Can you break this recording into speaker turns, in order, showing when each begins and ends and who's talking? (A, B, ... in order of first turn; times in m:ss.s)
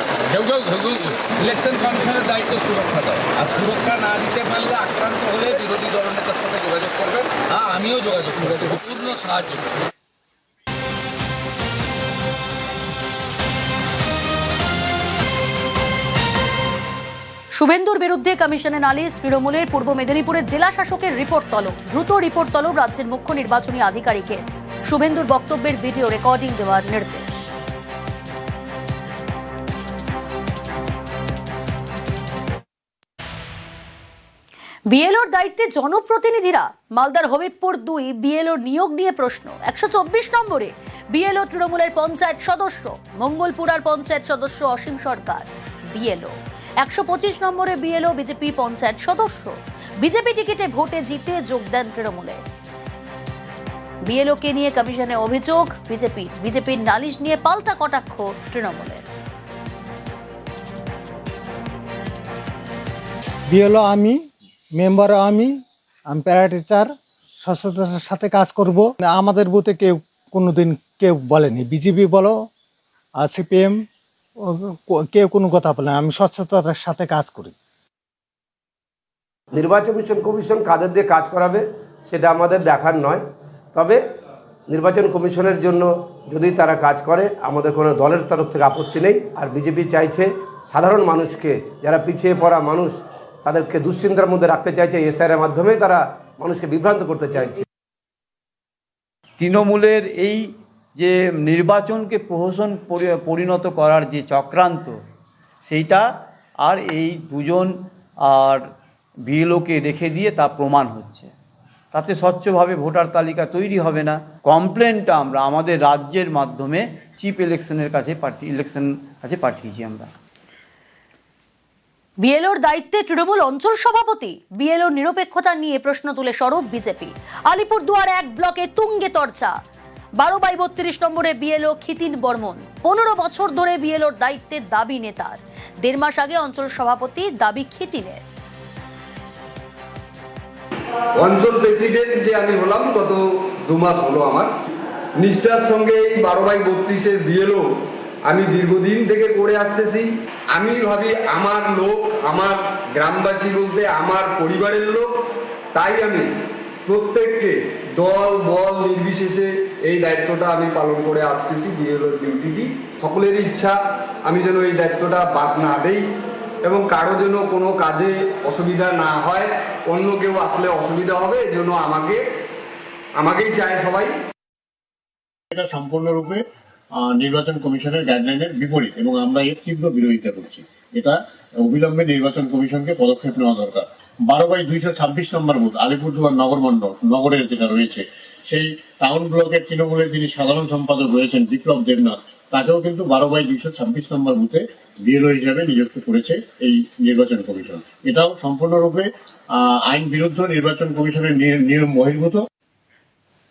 0:00.4-0:09.6 A
0:17.6-0:27.4 B
0:34.9-0:52.4 B
0:54.1-0:59.0 B
1:03.5-1:04.2 C
1:04.8-1:05.5 C
1:06.1-1:06.9 C
1:07.4-1:12.4 C
1:13.2-1:13.8 C
1:14.5-1:17.5 C
1:19.5-1:23.2 D
1:23.7-1:24.0 D
1:24.7-1:37.6 D
1:39.4-1:45.0 E
1:45.6-1:46.1 E
1:46.6-1:48.7 E
1:49.2-1:51.3 E
1:51.9-2:00.1 E
2:02.2-2:09.5 B
2:10.2-2:18.2 B
2:21.2-2:24.5 F
2:25.2-2:27.7 F
2:28.3-2:35.1 F
2:35.8-2:36.3 F
2:36.9-2:46.0 F
2:46.6-2:52.2 F
2:53.2-2:54.1 F
2:55.5-2:56.4 G
2:57.0-3:19.1 G
3:19.9-3:22.4 G